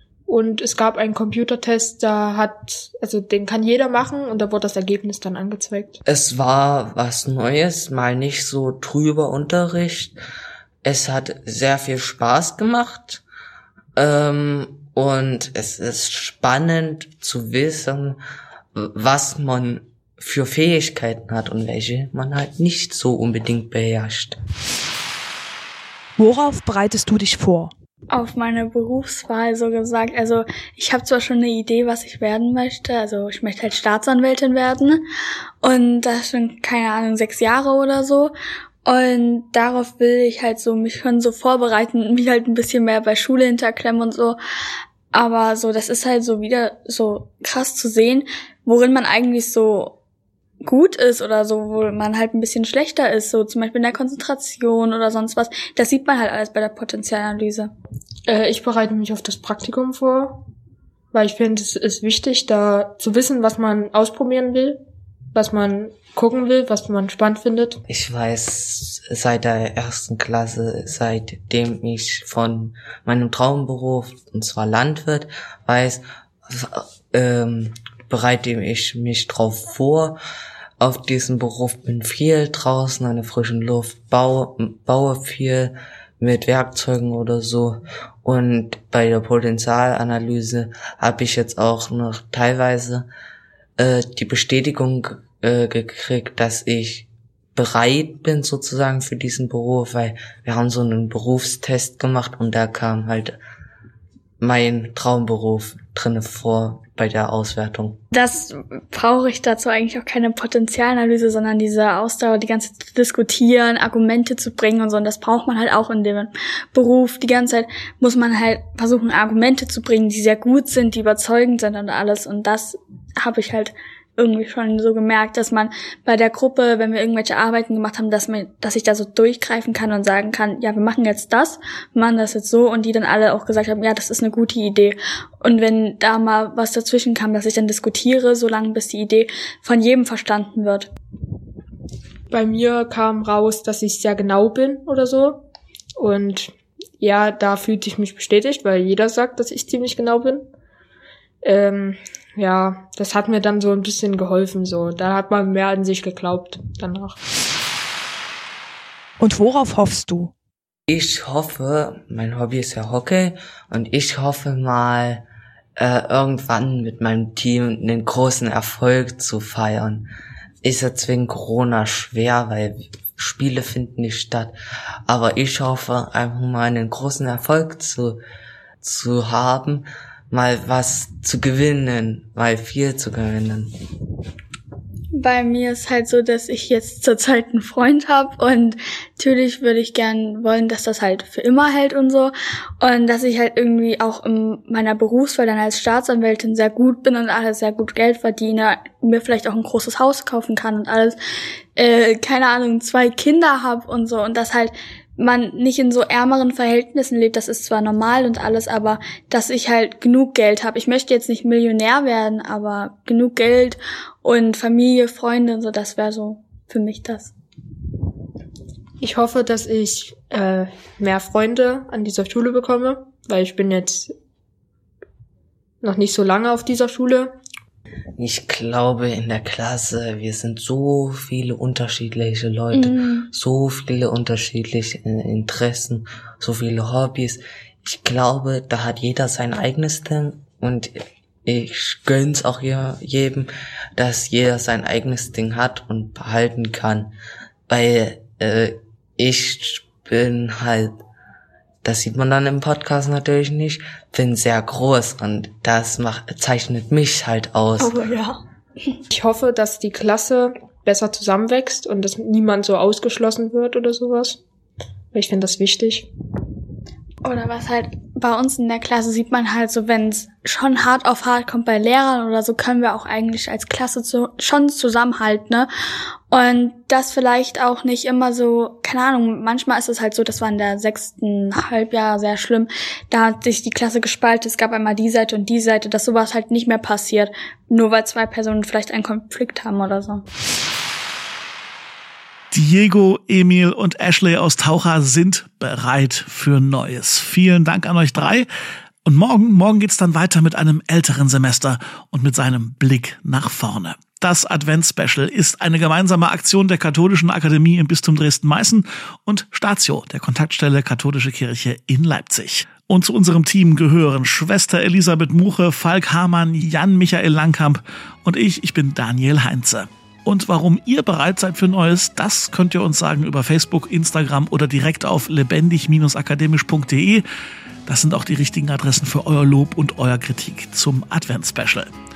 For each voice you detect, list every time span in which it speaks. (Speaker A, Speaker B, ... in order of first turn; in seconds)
Speaker A: 0.3-6.0, 58.3-60.4, 61.1-64.8, 65.3-67.8, 142.3-145.4, 146.0-150.5, 151.4-157.2, 219.0-224.1, 225.8-227.3, 259.1-264.4, 265.1-266.1
Speaker B: 6.0-10.2, 10.8-13.2, 14.0-18.2, 18.8-24.4, 67.9-80.2, 80.8-93.1, 93.8-103.4, 104.4-108.0, 160.9-165.2, 165.8-170.1, 170.6-174.6, 175.1-178.2, 178.8-183.7, 228.2-247.1, 247.7-250.9, 251.8-258.0
Speaker C: 26.2-27.7, 159.2-160.3
Speaker D: 28.1-35.0, 35.6-38.3, 38.9-44.4, 45.1-50.0, 50.6-57.7, 108.1-140.9, 185.2-201.2, 201.8-217.3, 232.7-233.3, 257.8-258.9, 267.2-275.7, 276.3-290.2
Speaker E: 292.5-298.5, 299.1-327.2, 327.9-331.9